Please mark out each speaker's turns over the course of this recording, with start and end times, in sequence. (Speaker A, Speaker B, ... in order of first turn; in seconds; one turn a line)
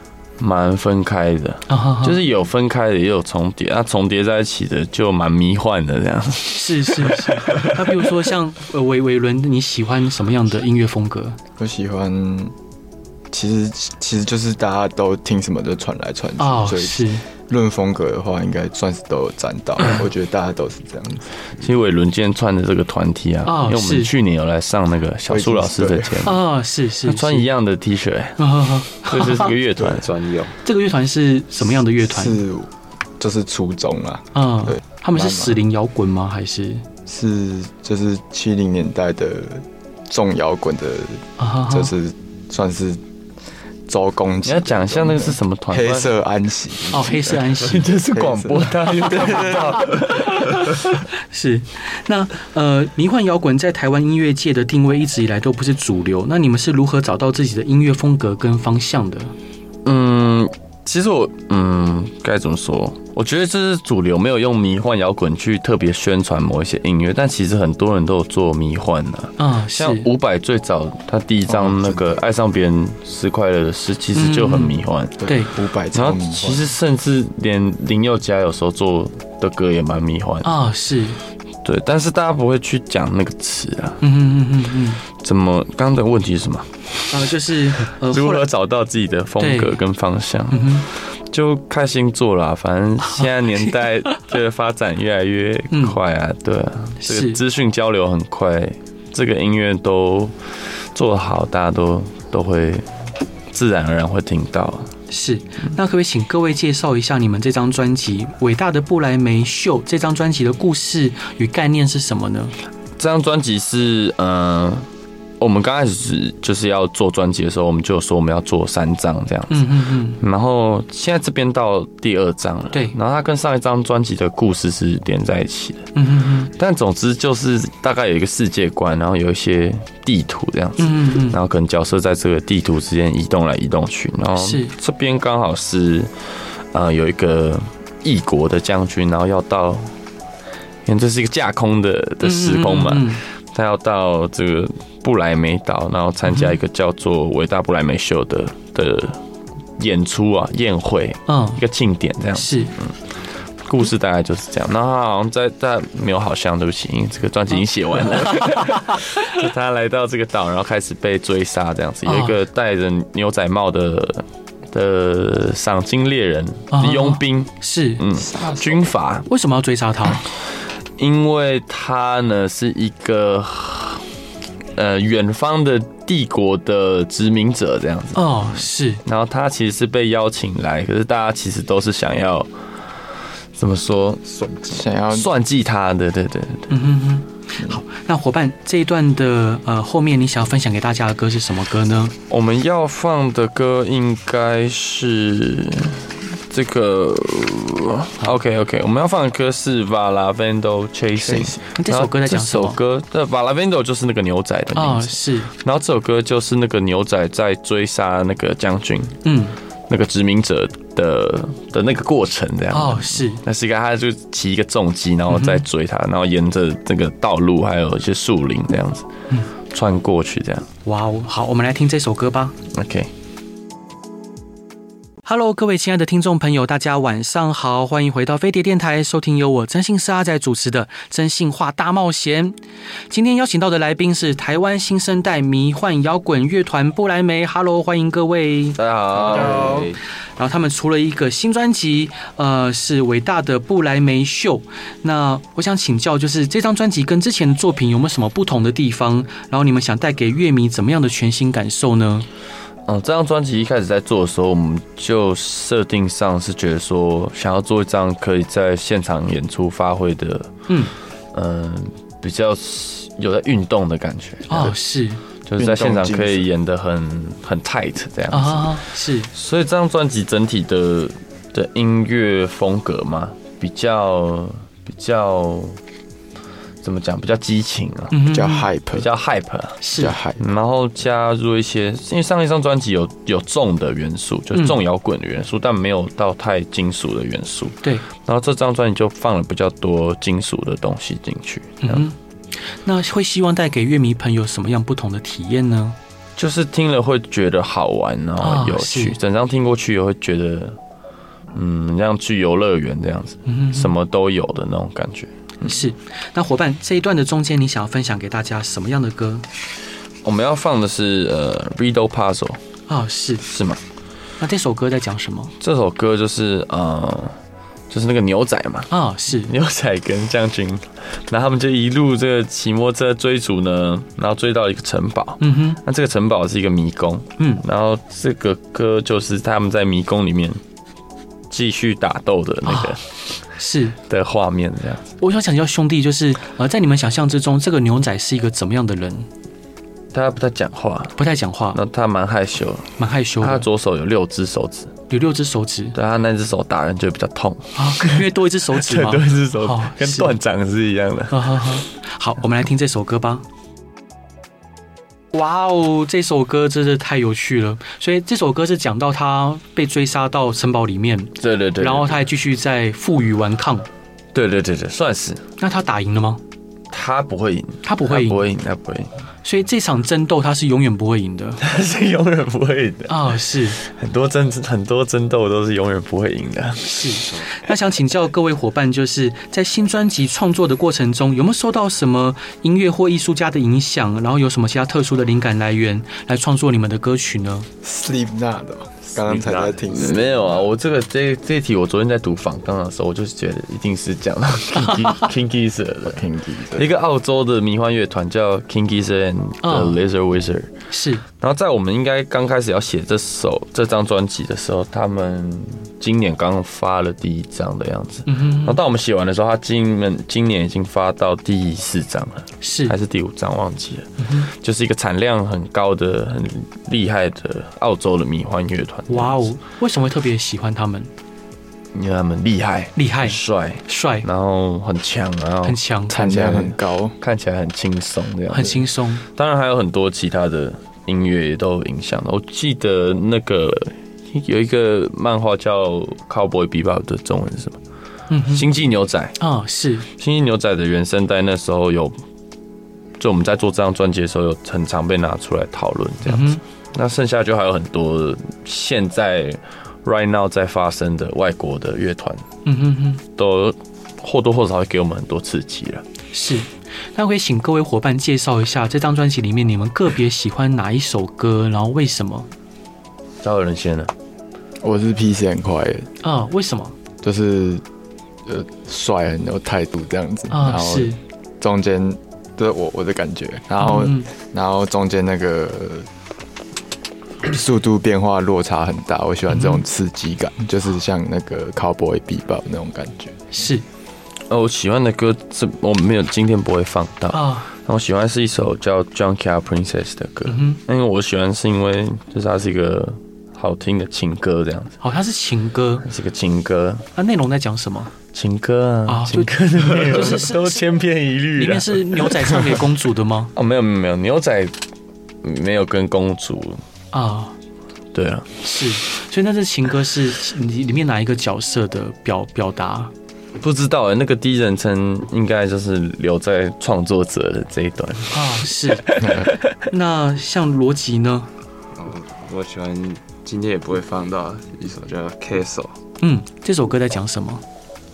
Speaker A: 0.4-8.0
Speaker B: 1.7-2.2
Speaker B: 6.5-11.4
Speaker C: 11.6-12.5
Speaker C: 13.3-21.3
Speaker B: 16.4-17.2
Speaker A: 21.6-26.4
Speaker B: 23.4-24.1
Speaker C: 25.3-26.2
Speaker B: 26.2-27.5
Speaker A: 27.1-28.4
Speaker B: 28.4-29.5
Speaker A: 29.0-30.1
Speaker D: 29.9-30.6
Speaker B: 30.6-32.4
Speaker C: 32.0-35.6
Speaker B: 34.3-36.8
Speaker C: 37.0-43.0
Speaker B: 41.4-41.9
Speaker C: 43.9-50.0
Speaker A: 44.4-46.1
Speaker B: 46.9-47.9
Speaker A: 47.1-50.9
Speaker B: 51.3-59.3
Speaker A: 59.8-75.3
Speaker B: 69.4-70.1
Speaker C: 71.5-72.2
Speaker B: 74.1-75.5
Speaker C: 75.2-76.7
Speaker A: 75.9-80.5
Speaker B: 80.4-81.2
Speaker A: 81.6-84.0
Speaker B: 84.0-85.0
Speaker A: 85.1-86.8
Speaker B: 87.1-88.5
Speaker A: 88.1-100.3
Speaker B: 89.4-89.8
Speaker B: 90.5-90.9
Speaker B: 93.1-94.1
Speaker B: 95.7-96.0
Speaker B: 97.0-97.4
Speaker A: 100.9-102.8
Speaker A: 103.5-104.9
Speaker B: 105.1-112.5
Speaker A: 113.0-114.9
Speaker A: 115.4-125.9
Speaker B: 119.5-120.2
Speaker B: 125.9-126.5
Speaker A: 126.5-136.1
Speaker B: 130.8-131.4
Speaker B: 134.3-134.7
Speaker A: 136.7-139.9
Speaker A: 140.8-149.2
Speaker B: 142.2-143.2
Speaker A: 149.8-153.0
Speaker B: 151.3-151.6
Speaker B: 152.3-152.7
Speaker A: 153.6-169.3
Speaker B: 162.0-162.4
Speaker B: 166.7-168.0
Speaker C: 168.2-168.8
Speaker B: 169.3-170.2
Speaker A: 171.0-174.0
Speaker A: 174.7-182.5
Speaker B: 178.1-179.0
Speaker A: 183.5-184.2
Speaker D: 184.3-184.7
Speaker C: 184.7-185.3
Speaker A: 185.1-186.7
Speaker B: 186.7-192.1
Speaker A: 192.3-209.2
Speaker C: 201.2-201.6
Speaker B: 201.7-202.8
Speaker B: 204.7-205.5
Speaker B: 209.2-209.6
Speaker A: 209.9-219.1
Speaker B: 212.7-213.4
Speaker B: 215.3-215.6
Speaker A: 219.7-220.7
Speaker B: 220.8-222.5
Speaker A: 222.7-223.1
Speaker B: 225.2-232.6
Speaker B: 233.1-238.8
Speaker A: 238.8-239.9
Speaker D: 239.3-239.9
Speaker B: 240.4-252.3
Speaker A: 252.9-260.5
Speaker A: 261.3-264.8
Speaker B: 264.5-265.2
Speaker A: 265.4-268.8
Speaker C: 265.6-266.4
Speaker B: 268.3-269.3
Speaker A: 269.3-275.8
Speaker A: 276.8-278.2
Speaker B: 278.1-278.7
Speaker C: 278.3-279.1
Speaker A: 278.9-279.8
Speaker B: 279.8-280.1
Speaker C: 279.9-280.4
Speaker A: 280.4-292.0
Speaker B: 291.8-292.1
Speaker B: 292.8-295.9
Speaker A: 296.4-300.8
Speaker B: 298.4-299.1
Speaker A: 301.5-305.8
Speaker B: 303.4-303.9
Speaker B: 305.6-309.4
Speaker A: 310.2-312.6
Speaker B: 312.9-313.4
Speaker A: 313.5-313.8
Speaker B: 314.4-315.5
Speaker A: 315.6-317.4
Speaker A: 317.9-330.6
Speaker B: 318.9-319.5
Speaker B: 325.4-325.8
Speaker A: 331.5-333.0
Speaker B: 332.6-333.0
Speaker B: 333.6-333.9
Speaker A: 334.1-335.1
Speaker B: 335.2-339.3
Speaker A: 340.1-341.2
Speaker B: 341.2-341.8
Speaker A: 341.7-344.9
Speaker B: 343.0-343.7
Speaker B: 345.1-345.9
Speaker A: 345.9-351.5
Speaker B: 347.8-350.4
Speaker B: 351.3-353.4
Speaker B: 355.3-363.9
Speaker A: 361.4-362.2
Speaker A: 364.3-365.4
Speaker B: 365.6-366.4
Speaker A: 366.9-369.1
Speaker B: 367.8-368.4
Speaker B: 369.4-371.6
Speaker A: 371.6-377.1
Speaker B: 373.1-373.8
Speaker B: 376.8-387.7
Speaker C: 387.8-390.6
Speaker D: 389.3-389.7
Speaker A: 389.9-396.2
Speaker C: 396.1-396.9
Speaker A: 396.8-400.7
Speaker B: 399.6-400.0
Speaker B: 400.9-401.2
Speaker A: 401.3-419.5
Speaker B: 408.3-408.8
Speaker B: 412.6-412.9
Speaker B: 414.2-414.5
Speaker B: 419.1-421.1
Speaker A: 421.9-437.8
Speaker B: 422.9-424.3
Speaker B: 425.6-426.2
Speaker C: 426.1-427.1
Speaker B: 428.5-429.2
Speaker B: 438.3-438.7
Speaker A: 438.5-439.4
Speaker B: 439.4-440.1
Speaker A: 440.1-442.1
Speaker A: 443.2-452.4
Speaker B: 446.2-446.6
Speaker B: 452.6-453.2
Speaker A: 453.4-456.0
Speaker B: 456.3-462.5
Speaker A: 463.4-464.1
Speaker C: 464.8-466.1
Speaker B: 466.2-466.9
Speaker C: 467.2-467.8
Speaker C: 468.4-476.1
Speaker B: 470.5-471.2
Speaker B: 473.8-474.3
Speaker C: 477.4-483.5
Speaker B: 479.5-479.8
Speaker B: 483.5-483.8
Speaker A: 484.5-495.0
Speaker B: 487.3-487.6
Speaker B: 490.5-490.8
Speaker B: 495.0-496.1
Speaker A: 496.0-497.1
Speaker B: 497.1-498.1
Speaker A: 498.3-502.8
Speaker B: 499.1-500.8
Speaker B: 501.6-503.5
Speaker A: 503.5-504.8
Speaker A: 505.4-506.8
Speaker B: 507.1-507.5
Speaker A: 508.1-508.5
Speaker B: 508.6-513.1
Speaker A: 513.6-519.6
Speaker B: 518.3-519.1
Speaker C: 519.2-519.5
Speaker B: 519.9-521.5
Speaker D: 521.9-526.0
Speaker B: 526.2-527.6